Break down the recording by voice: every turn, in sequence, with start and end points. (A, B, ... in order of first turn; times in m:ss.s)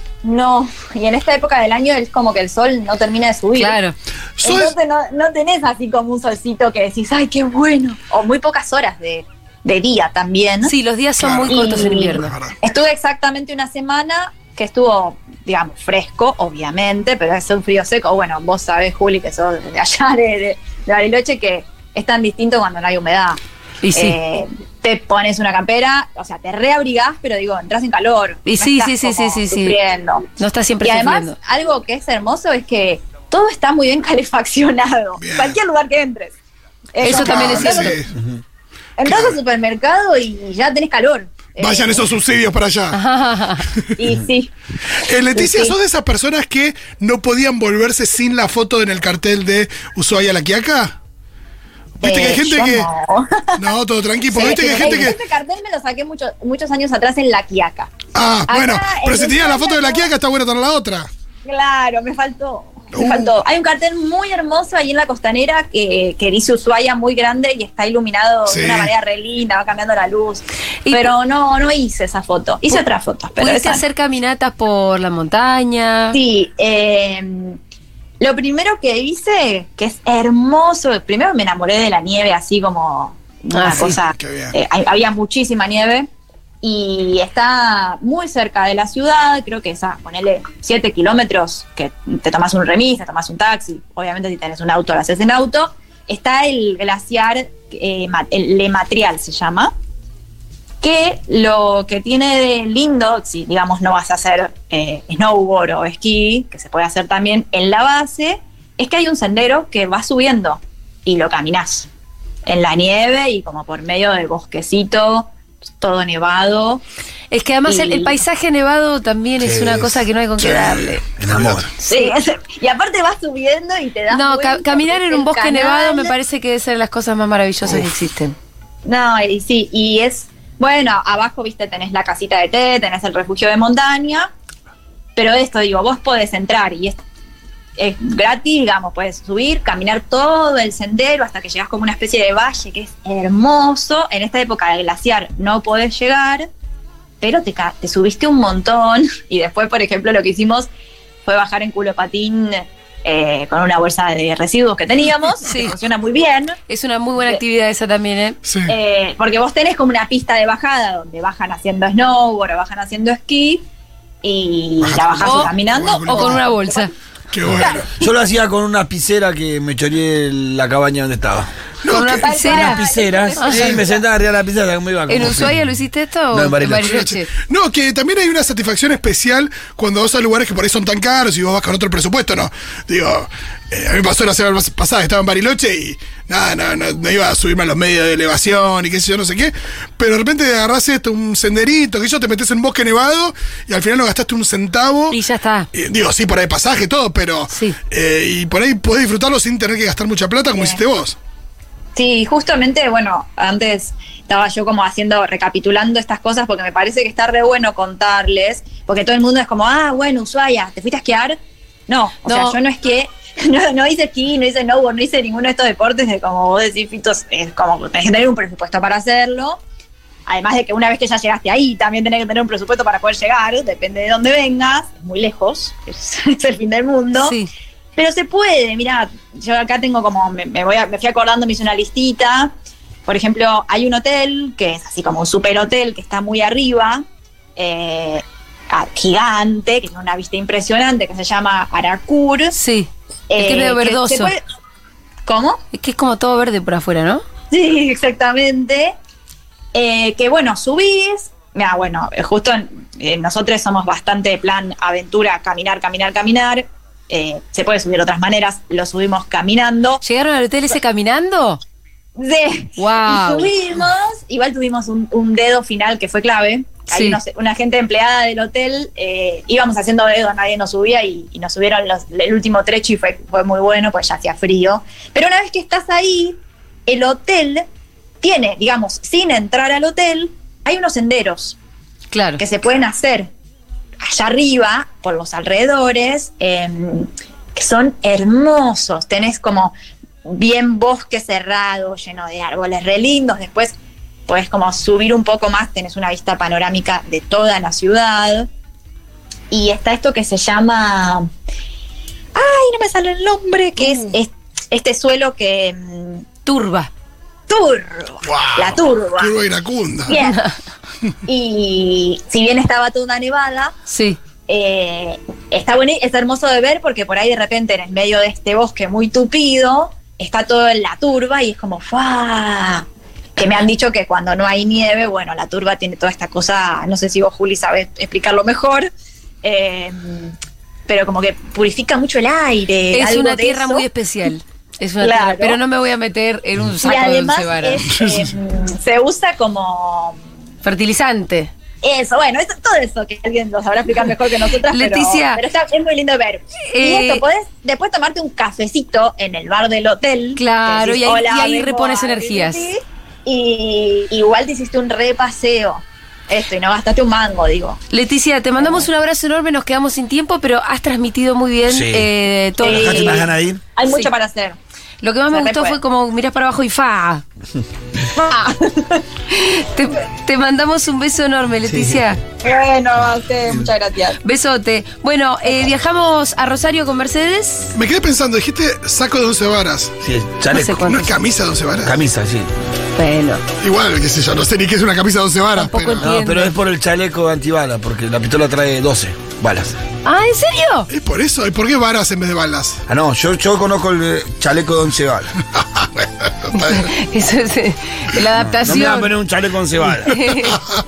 0:00.2-0:03.8 A
0:03.6-0:03.9 B
0:04.4-0:04.7 C
0:04.4-0:10.7 A
0:10.6-0:12.3 B
0:11.2-0:11.6 C
0:11.4-0:23.4 A
0:12.1-0:12.6 C
0:23.8-0:24.2 B
0:23.9-0:30.2 A
0:28.4-0:29.8 B
0:30.4-0:31.4 B
0:30.8-0:36.4 A
0:35.2-0:35.6 C
0:36.9-0:38.0 A
0:37.0-0:38.0 B
0:37.0-0:38.1 C
0:39.0-0:42.0 A
0:39.0-0:39.4 C
0:41.6-0:43.0 C
0:42.9-0:43.7 B
0:43.6-0:43.9 C
0:44.0-0:44.5 A
0:45.0-0:51.0 C
0:45.3-0:45.7 A
0:52.0-0:52.9 C
0:52.0-0:53.6 A
0:53.6-0:55.2 C
0:54.3-0:57.9 A
0:58.1-1:01.1 C
0:58.5-1:00.1 A
1:01.4-1:13.8 A
1:02.9-1:03.3 C
1:08.5-1:08.9 C
1:10.8-1:11.1 B
1:13.4-1:16.2 B
1:16.1-1:17.6 A
1:18.2-1:26.1 A
1:23.5-1:23.9 B
1:23.7-1:24.5 C
1:26.6-1:39.7 A
1:40.8-1:51.9 A
1:52.4-1:56.8 A
1:57.3-2:01.0 B
1:57.7-1:58.2 A
1:59.4-1:59.8 D
2:00.4-2:01.7 C
2:01.2-2:01.7 D
2:01.8-2:06.1 A
2:01.8-2:02.1 B
2:04.1-2:08.3 B
2:07.6-2:07.9 C
2:08.8-2:14.3 A
2:15.2-2:17.0 A
2:17.8-2:26.5 A
2:27.2-2:30.7 A
2:31.2-2:36.6 A
2:35.4-2:35.7 B
2:36.7-2:38.4 B
2:38.4-2:38.8 C
2:38.7-2:43.6 A
2:44.2-2:46.9 A
2:44.8-2:46.5 C
2:45.2-2:45.5 B
2:46.1-2:46.9 B
2:47.3-2:47.9 C
2:47.5-2:47.9 A
2:48.0-2:51.5 D
2:51.8-2:52.3 C
2:51.9-2:52.8 B
2:52.0-2:54.1 A
2:52.5-2:55.6 D
2:53.4-2:53.8 B
2:55.1-2:57.3 B
2:56.3-2:57.1 D
2:56.8-3:15.2 C
3:15.1-3:15.7 B
3:15.7-3:21.2 C
3:17.5-3:17.8 B
3:20.5-3:20.8 A
3:21.9-3:31.4 A
3:31.9-3:39.6 A
3:32.2-3:32.6 B
3:40.3-3:47.4 A
3:47.2-3:47.5 B
3:48.0-3:52.5 A
3:53.1-3:57.0 A
3:57.6-4:02.6 A
4:02.5-4:04.3 B
4:03.3-4:04.4 A
4:05.2-4:05.6 A
4:05.7-4:07.2 B
4:07.5-4:08.9 A
4:09.7-4:20.0 A
4:20.0-4:21.6 B
4:22.2-4:37.6 A
4:22.8-4:23.5 B
4:26.9-4:27.2 B
4:38.2-4:41.6 A
4:42.1-4:42.4 B
4:42.4-4:43.3 A
4:44.0-4:49.7 A
4:50.2-4:53.8 A
4:54.3-4:58.5 A
4:59.5-5:01.3 A
5:02.3-5:06.2 A
5:03.8-5:04.2 C
5:06.4-5:06.9 B
5:07.5-5:09.3 A
5:08.2-5:10.2 C
5:10.1-5:10.4 A
5:10.1-5:10.6 B
5:11.2-5:13.7 A
5:13.8-5:14.2 B
5:14.5-5:28.9 A
5:29.4-5:30.3 A
5:30.9-5:33.8 A
5:32.9-5:37.8 B
5:35.0-5:35.6 A
5:36.8-5:40.2 A
5:38.0-5:38.3 C
5:40.6-5:41.5 B
5:41.8-5:57.8 A
5:44.7-5:45.4 B
5:46.7-5:47.2 B
5:50.4-5:52.7 B
5:57.9-6:03.2 B
5:58.6-5:58.9 A
6:01.7-6:02.1 D
6:02.6-6:03.6 D
6:02.6-6:04.6 A
6:05.0-6:07.2 B
6:05.3-6:05.8 A
6:08.1-6:09.0 A
6:09.3-6:12.2 B
6:11.7-6:12.0 D
6:12.4-6:14.2 A
6:14.2-6:17.8 B
6:17.7-6:20.0 C
6:20.0-6:20.8 D
6:20.5-6:21.1 B
6:20.8-6:22.0 C
6:21.8-6:22.5 D
6:23.0-6:23.4 B
6:23.6-6:26.1 C
6:25.6-6:26.5 B
6:26.0-6:29.8 D
6:30.0-6:30.9 B
6:30.9-6:32.8 C
6:32.9-6:35.3 D
6:35.6-6:36.9 C
6:36.5-6:39.1 B
6:38.4-6:40.2 D
6:40.1-6:40.6 B